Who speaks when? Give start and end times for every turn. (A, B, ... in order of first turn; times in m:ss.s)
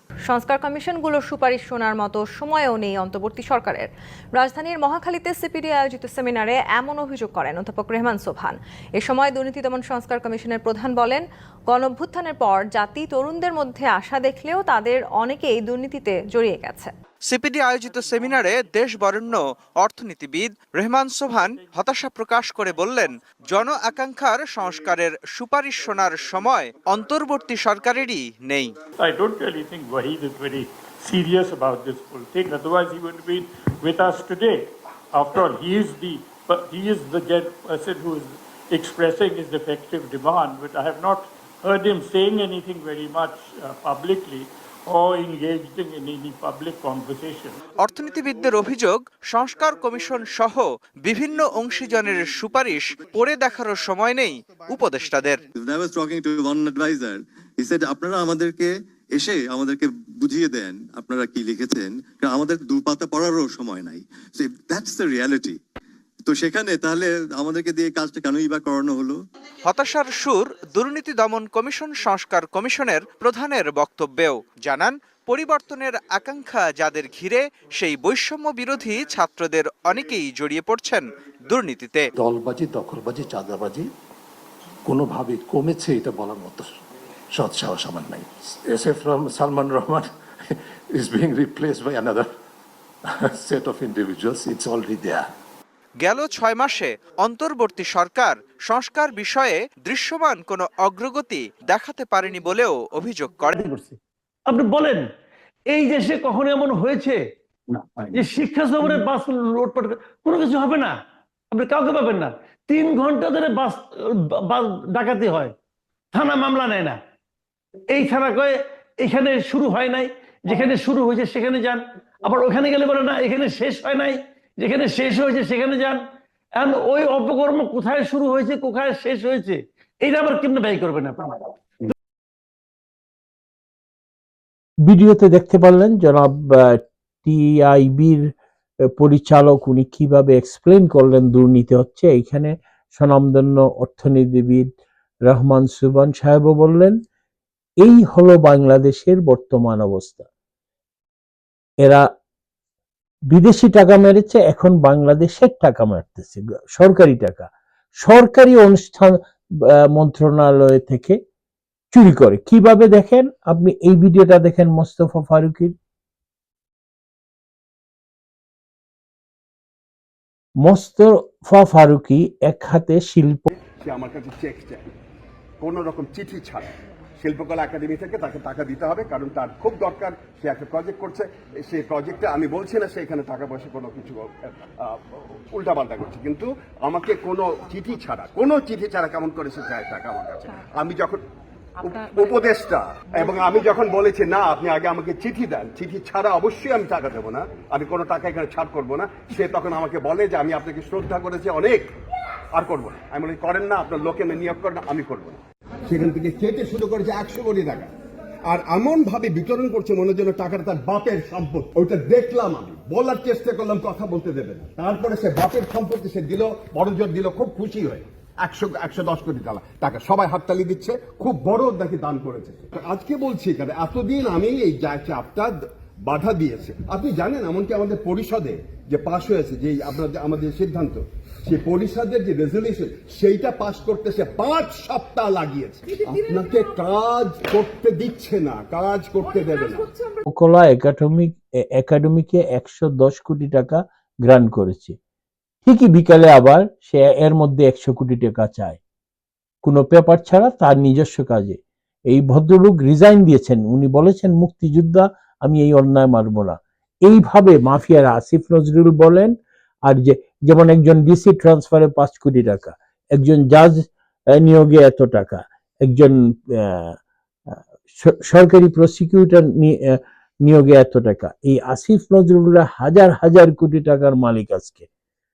0:00.3-0:16.9 A
0:17.2-0:28.7 B
0:32.5-0:33.3 C
0:36.7-0:38.2 C
0:38.9-0:40.2 C
0:40.7-0:41.2 C
0:42.2-0:43.3 C
0:43.8-0:44.4 C
0:45.2-0:47.4 C
0:47.8-0:55.4 B
0:55.5-1:05.6 D
1:06.2-1:09.2 D
1:09.6-1:22.1 B
1:22.2-1:23.9 E
1:24.8-1:26.6 E
1:27.3-1:32.3 E
1:33.1-1:35.2 E
1:36.0-1:43.5 B
1:43.5-1:45.0 F
1:45.7-1:47.2 F
1:48.0-1:51.0 F
1:51.5-1:55.5 F
1:56.1-1:57.0 F
1:57.9-2:06.0 F
2:06.5-2:11.9 F
2:14.8-2:18.3 G
2:19.0-2:24.7 G
2:25.2-2:27.0 G
2:27.8-2:30.3 G
2:31.8-2:32.1 G
2:33.3-2:37.5 G
2:38.0-2:41.2 G
2:41.9-2:45.7 G
2:50.6-2:53.5 G
2:53.8-2:54.9 H
2:55.6-3:11.2 H
3:11.8-3:21.9 H
3:22.5-3:27.9 H
3:28.5-3:59.9 H
4:00.3-4:05.0 G
4:05.6-4:08.8 G
4:09.6-4:19.3 G
4:19.9-4:27.0 G
4:27.5-4:34.8 G